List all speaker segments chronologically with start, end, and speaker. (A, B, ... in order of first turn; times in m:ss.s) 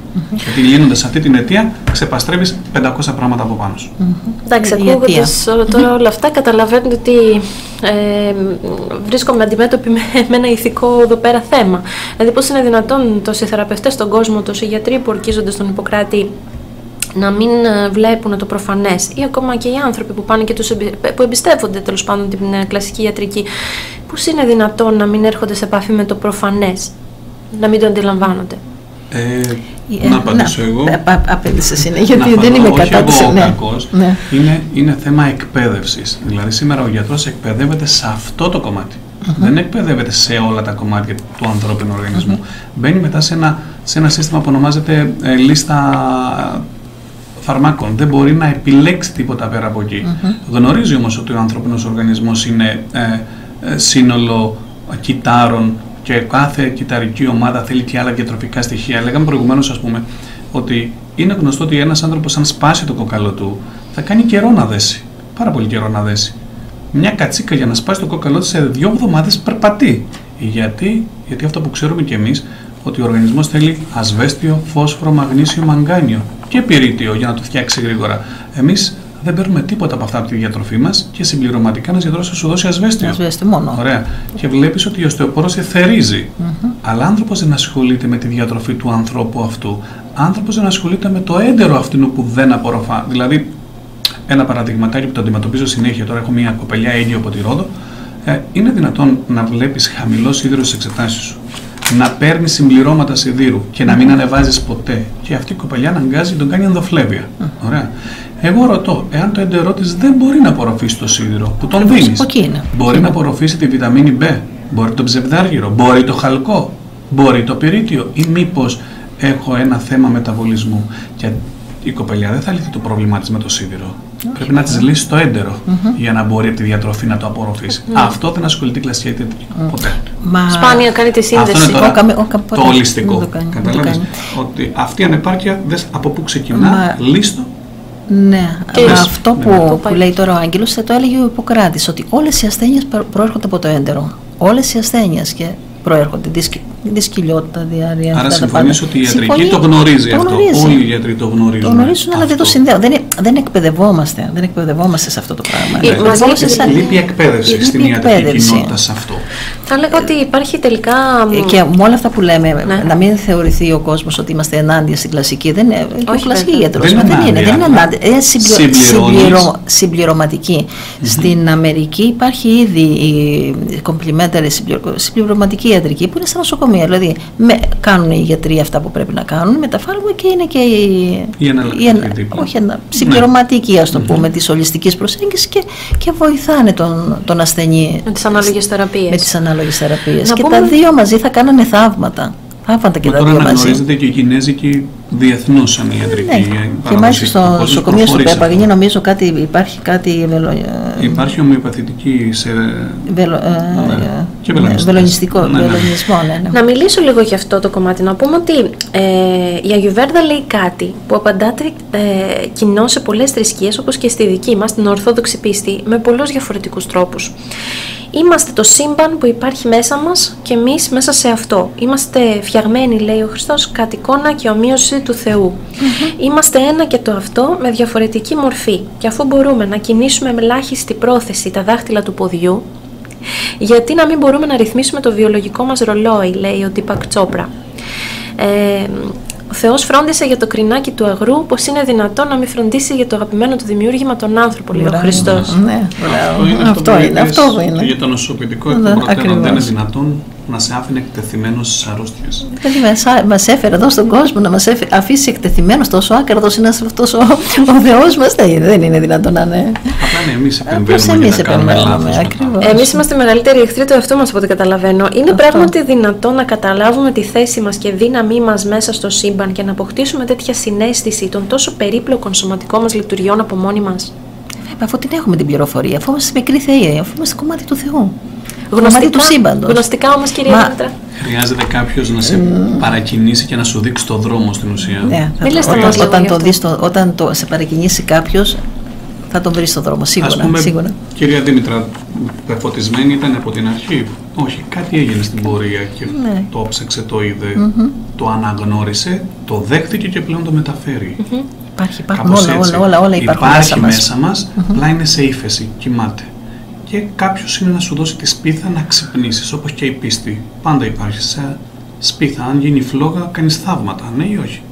0:00.2-0:00.4 A
0:00.4-0:03.9 B
0:04.0-0:05.3 A
0:04.5-0:16.3 C
0:17.2-0:23.5 C
0:24.1-0:26.9 C
0:27.5-0:28.6 C
0:29.1-0:31.0 B
0:29.9-0:34.2 A
0:32.1-0:46.7 B
0:39.3-0:39.5 A
0:47.4-1:06.4 B
1:06.9-1:33.5 B
1:23.0-1:23.8 A
1:26.4-1:26.8 A
1:34.3-1:37.7 B
1:38.2-1:47.9 B
1:48.4-2:10.0 B
1:51.8-1:52.7 A
2:04.3-2:04.9 A
2:05.7-2:06.0 A
2:10.2-2:10.9 A
2:10.5-2:11.8 C
2:11.3-2:17.5 B
2:11.6-2:14.1 A
2:16.5-2:17.0 A
2:18.1-2:30.8 A
2:18.7-2:19.1 C
2:18.8-2:19.8 B
2:19.7-2:20.0 C
2:28.1-2:32.6 B
2:31.6-2:36.8 A
2:35.8-2:37.0 C
2:35.8-2:39.3 B
2:37.4-2:38.7 A
2:39.7-2:41.6 C
2:41.3-3:08.4 A
2:46.1-2:46.7 C
2:46.8-2:47.9 B
2:48.4-2:49.5 B
2:51.0-2:51.3 B
3:01.4-3:03.3 B
3:04.0-3:04.2 B
3:08.1-3:09.3 C
3:09.1-3:13.8 A
3:10.2-3:10.8 C
3:13.0-3:18.7 B
3:16.1-3:21.3 A
3:21.0-3:23.1 B
3:23.1-3:26.6 A
3:23.7-3:26.0 B
3:26.5-3:37.3 C
3:38.1-3:52.6 C
3:45.8-3:46.1 A
3:53.6-3:57.5 C
3:58.4-4:05.6 C
4:04.7-4:07.9 A
4:05.2-4:12.6 B
4:08.7-4:09.7 A
4:12.5-4:20.0 A
4:20.0-4:22.6 B
4:20.7-4:23.0 A
4:22.6-4:34.1 C
4:25.3-4:25.7 A
4:34.6-4:38.2 A
4:38.7-4:41.0 C
4:38.8-4:39.8 A
4:40.4-4:40.8 A
4:41.2-4:46.1 B
4:42.2-4:42.9 A
4:45.0-4:48.6 A
4:45.4-4:46.6 C
4:49.3-4:51.0 A
4:50.2-5:01.2 B
4:56.1-4:56.5 A
4:57.6-4:58.0 A
5:01.2-5:01.5 C
5:01.8-5:04.1 A
5:02.1-5:06.3 B
5:06.9-5:14.6 B